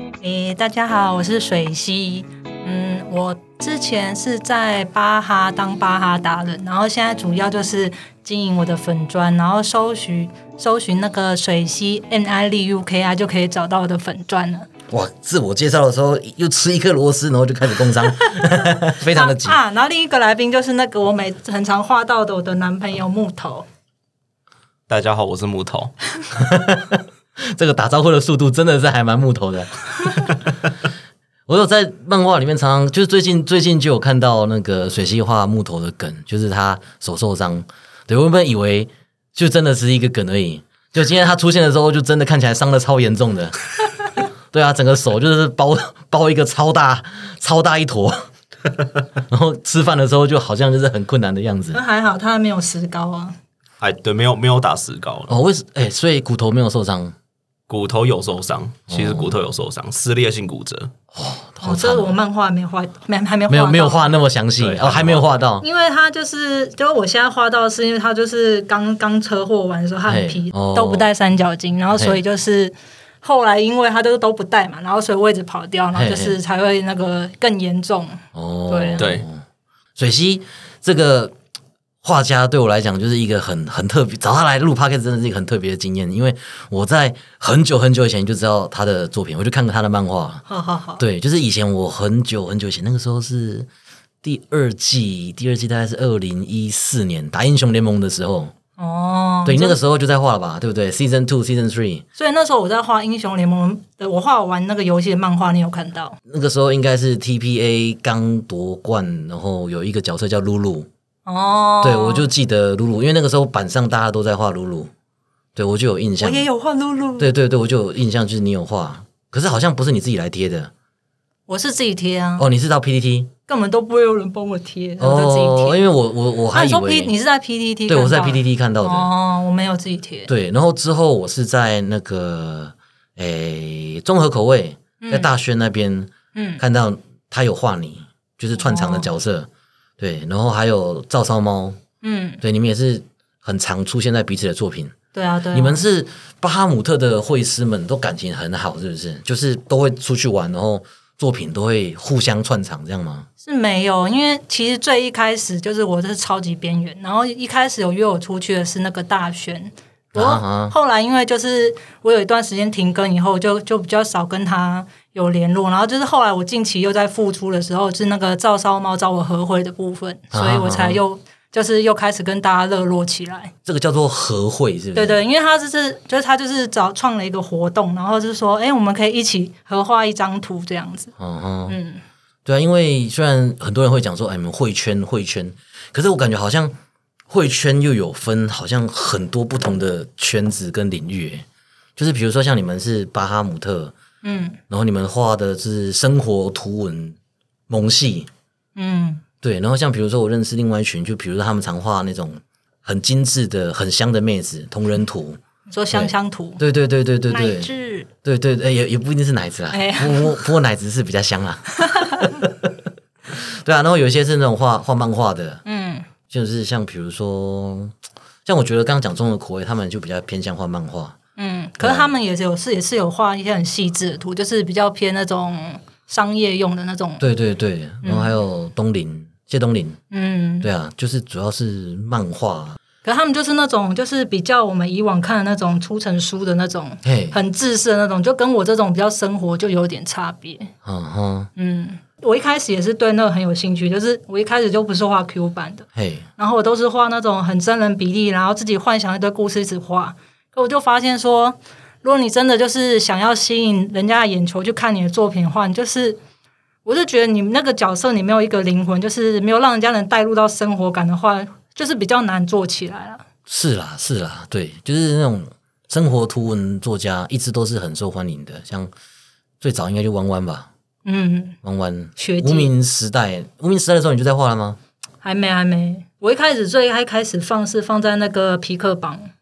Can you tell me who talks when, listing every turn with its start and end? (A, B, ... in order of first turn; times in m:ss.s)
0:00.2-0:14.7 A
0:14.9-0:19.6 B
0:18.2-0:23.7 A
0:24.9-0:25.9 C
0:26.3-0:30.4 B
0:31.5-0:48.3 B
0:49.3-0:51.8 B
0:51.7-0:53.4 A
0:53.8-0:55.4 C
0:55.3-0:57.2 B
0:57.7-1:00.9 C
0:58.9-0:59.4 B
1:01.1-1:02.2 B
1:01.6-1:04.1 A
1:03.5-1:05.7 B
1:04.6-1:05.3 C
1:05.6-1:19.0 A
1:10.1-1:11.1 B
1:11.9-1:12.2 B
1:16.0-1:16.4 B
1:18.3-1:19.4 B
1:19.0-1:19.2 C
1:20.0-1:21.4 B
1:22.0-1:30.4 B
1:30.5-1:31.0 A
1:31.0-1:33.7 B
1:34.2-1:38.5 B
1:38.8-1:39.8 A
1:39.5-1:42.0 B
1:42.2-1:46.2 A
1:46.3-1:50.9 B
1:51.3-1:52.3 A
1:51.8-1:54.9 B
1:55.6-1:56.5 B
1:56.2-1:57.3 A
1:57.2-2:00.7 B
2:01.5-2:02.5 A
2:02.4-2:03.3 B
2:03.5-2:05.8 A
2:05.0-2:07.1 B
2:06.5-2:10.3 A
2:07.9-2:09.1 B
2:10.3-2:21.8 B
2:15.0-2:15.3 A
2:16.3-2:16.6 A
2:18.6-2:19.1 A
2:22.0-2:22.4 A
2:22.4-2:25.0 B
2:25.1-2:25.8 A
2:25.5-2:33.3 B
2:33.4-2:53.5 A
2:40.2-2:40.8 B
2:50.3-2:51.0 B
2:53.7-2:55.2 B
2:55.0-3:01.1 A
3:01.2-3:01.8 B
3:01.7-3:02.0 A
3:02.4-3:06.8 B
3:07.3-3:11.5 B
3:12.0-3:13.9 B
3:14.2-3:14.6 A
3:14.7-3:17.2 B
3:17.7-3:18.3 B
3:18.8-3:19.2 A
3:19.4-3:25.4 B
3:25.7-3:26.6 A
3:25.9-3:27.7 B
3:27.3-3:28.1 A
3:28.2-3:32.7 B
3:29.7-3:30.5 A
3:31.8-3:32.4 A
3:33.3-3:35.6 B
3:35.6-3:36.1 A
3:36.3-3:41.2 B
3:41.4-3:47.2 A
3:41.8-3:42.1 B
3:47.2-3:50.0 B
3:48.0-3:48.3 A
3:50.1-3:50.7 A
3:50.6-3:52.8 B
3:53.0-4:00.7 A
3:57.0-3:57.4 B
4:00.8-4:01.5 B
4:01.6-4:16.2 A
4:06.0-4:06.3 B
4:16.8-4:23.2 A
4:23.5-4:28.9 B
4:29.6-4:30.7 B
4:31.0-4:31.6 A
4:31.6-4:34.8 B
4:32.2-4:32.7 A
4:35.2-4:39.3 A